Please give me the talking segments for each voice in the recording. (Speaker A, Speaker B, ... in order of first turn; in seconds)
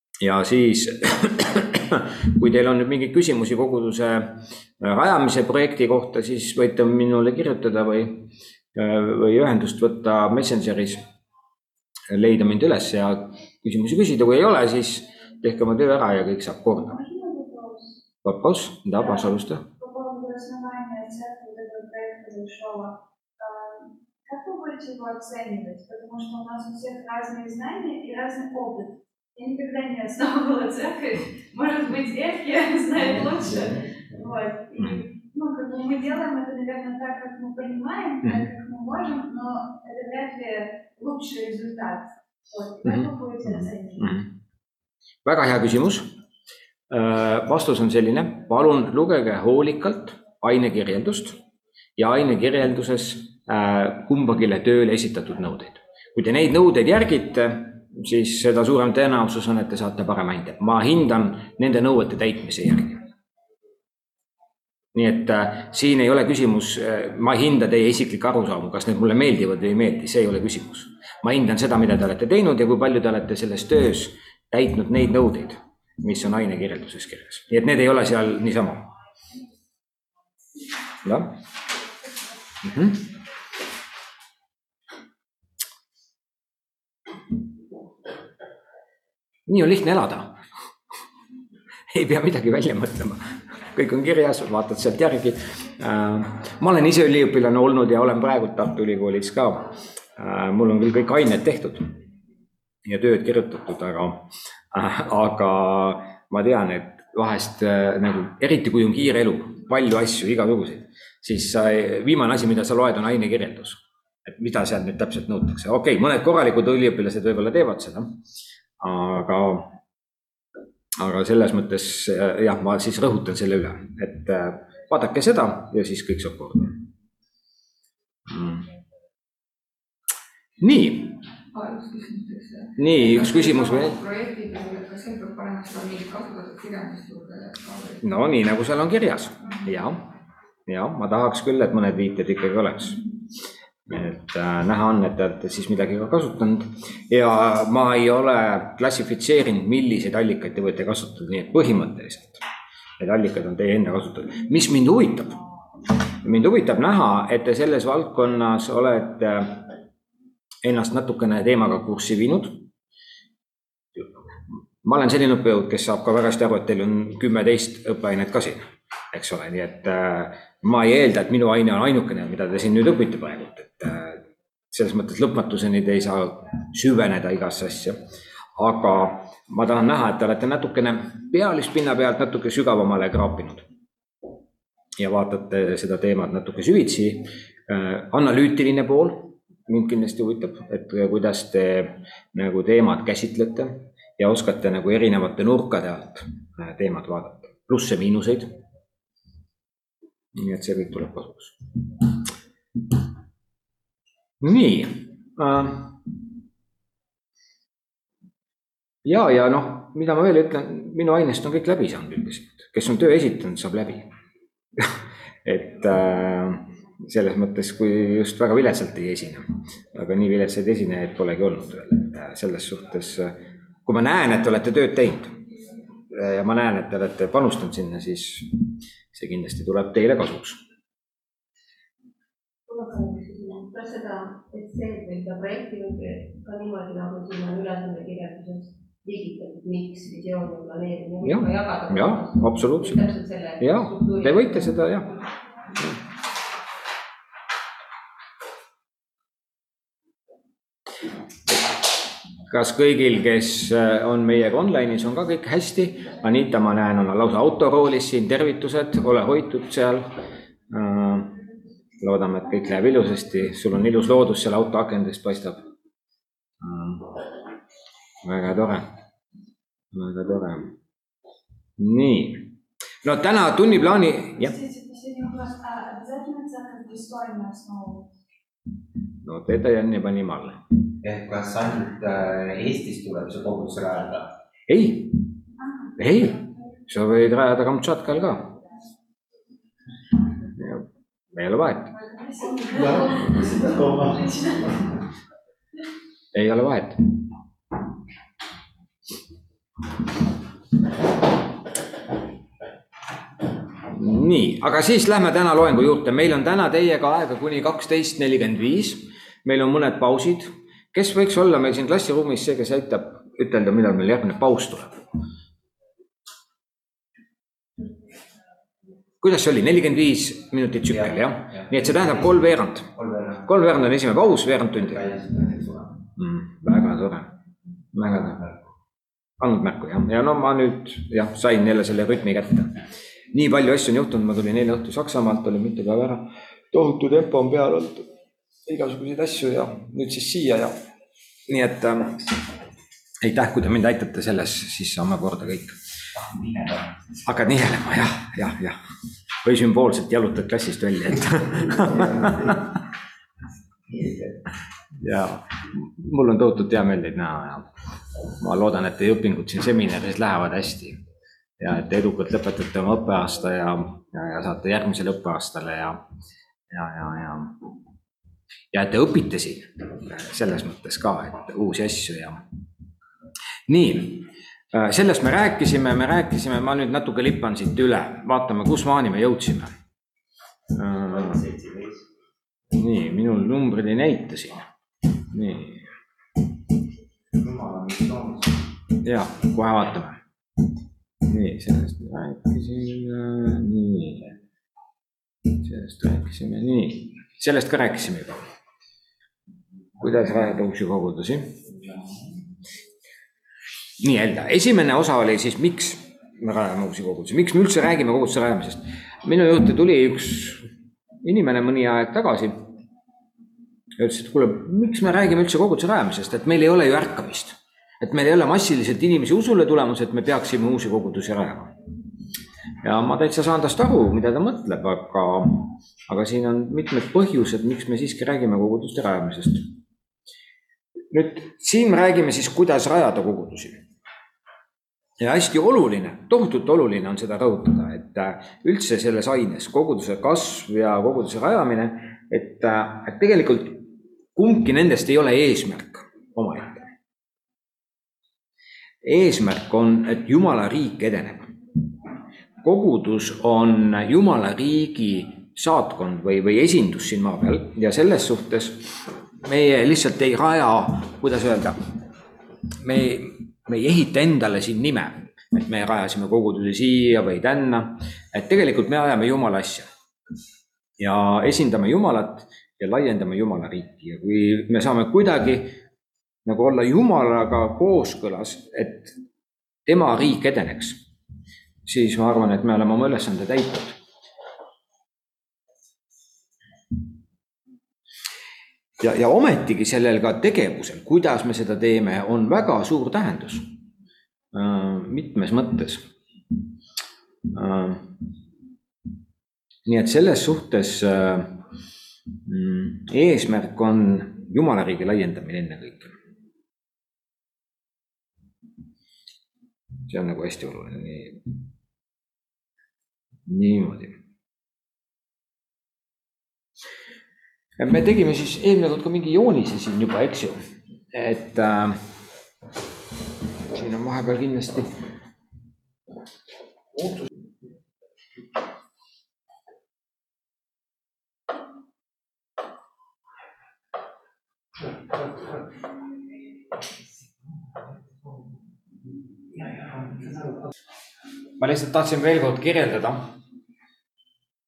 Speaker A: 0.2-11.0, 12.1-17.0, 18.2-19.6, 42.8-44.3, 45.2-46.1, 46.9-51.4, 52.0-63.0, 64.9-78.9, 81.0-81.3, 82.6-83.0, 89.5-90.4, 91.9-101.9, 102.8-118.2, 118.8-119.8, 121.0-126.8, 128.3-128.7, 130.6-131.2, 132.8-134.0, 138.0-140.1, 140.7-143.0, 143.9-152.4, 153.0-155.3, 156.2-159.7, 160.6-162.7, 164.0-178.0, 178.6-183.7, 185.0-198.5, 200.3-201.6, 204.4-206.0, 209.0-214.1, 215.4-225.4, 226.1-228.5, 229.1-230.6, 241.2-243.0, 243.6-245.2, 252.5-260.1, 260.7-261.4, 262.0-265.6, 266.6-267.1, 268.2-268.9, 269.9-270.7, 271.8-272.5, 273.0-274.6, 279.2-280.6, 284.7-285.2, 286.0-288.6, 290.6-292.0, 296.3-297.2, 303.9-315.0, 319.2-322.9, 323.5-325.0, 326.2-327.3, 327.9-328.4, 329.4-332.8, 333.3-338.1, 338.7-340.7, 341.5-342.2, 343.2-345.8, 347.2-348.8, 349.4-352.6, 355.0-357.7, 358.4-361.0, 361.6-366.0, 366.7-367.6, 368.7-372.4, 373.7-379.7, 380.8-381.4, 382.7-384.7, 385.3-385.8, 389.0-390.2, 391.3-394.3, 395.6-398.4, 400.0-401.5, 404.0-410.7, 411.2-412.7, 414.0-421.7, 422.8-429.7, 431.1-433.8, 435.2-446.9, 449.0-451.5, 452.6-461.8, 462.8-469.9, 471.0-475.7, 476.4-479.1, 479.9-481.0, 481.9-484.0, 489.0-493.7, 494.5-496.1, 497.5-498.2, 499.9-501.6, 502.5-506.1, 510.1-511.4, 513.5-514.2, 517.8-520.6, 521.1-522.0, 523.7-524.9, 527.0-527.2, 541.6-543.2
Speaker B: 17.0-18.0, 19.8-44.0, 274.6-278.1
Speaker C: 131.5-138.0
Speaker D: 232.7-244.8
Speaker E: 281.0-284.3, 292.7-294.6, 321.5-322.3, 322.9-323.5, 324.8-326.0, 346.4-346.9, 353.9-354.2, 381.1-382.0, 387.3-388.6, 401.7-402.2, 539.8-540.5